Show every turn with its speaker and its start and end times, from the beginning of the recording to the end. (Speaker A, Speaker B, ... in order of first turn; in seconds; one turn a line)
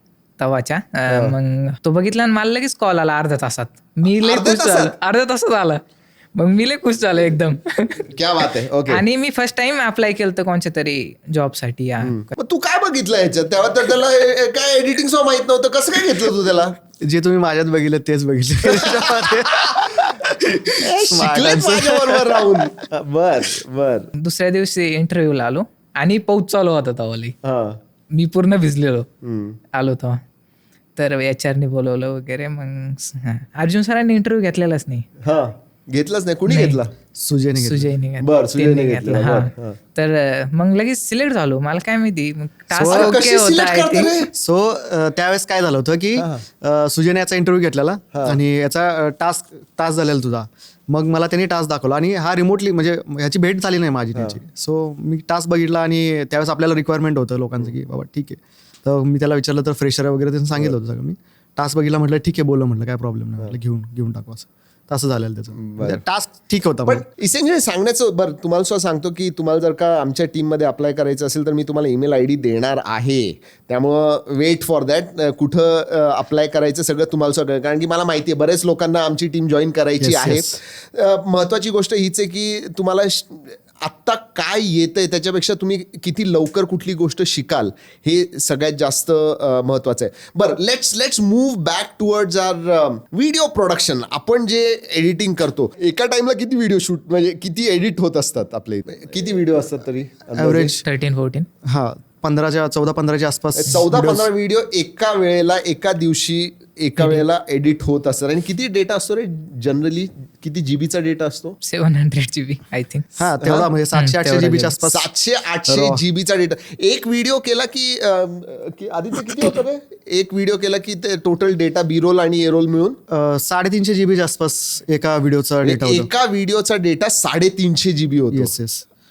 Speaker A: 0.4-5.8
Speaker B: 1.1-1.4
Speaker B: 4.2-4.9
Speaker A: 6.3-8.1
Speaker B: 8.1-9.0
Speaker A: 8.9-12.2
Speaker B: 12.0-16.7
Speaker C: 17.0-22.7
Speaker B: 18.7-19.9
Speaker B: 20.8-24.1
Speaker A: 24.2-27.3
Speaker B: 27.4-27.8
Speaker A: 28.1-29.1
Speaker B: 29.2-29.6
Speaker A: 29.7-30.2
Speaker A: 30.9-35.0
Speaker B: 35.2-36.9
Speaker A: 36.5-36.8
Speaker C: 37.1-37.9
Speaker A: 37.6-44.1
Speaker B: 38.2-39.8
Speaker C: 42.7-43.2
Speaker B: 42.8-44.3
Speaker C: 44.3-67.0
Speaker B: 46.2-46.4
Speaker B: 48.1-48.4
Speaker B: 65.6-66.0
Speaker B: 66.9-100.8
Speaker C: 80.0-80.6
Speaker C: 100.3-100.8
Speaker A: 100.8-101.5
Speaker C: 101.6-104.3
Speaker B: 103.5-111.6
Speaker A: 111.6-113.2
Speaker C: 113.2-115.1
Speaker B: 113.4-113.7
Speaker A: 113.9-114.7
Speaker B: 114.8-123.0
Speaker C: 115.7-116.0
Speaker C: 123.1-126.1
Speaker B: 125.6-128.5
Speaker C: 128.3-128.8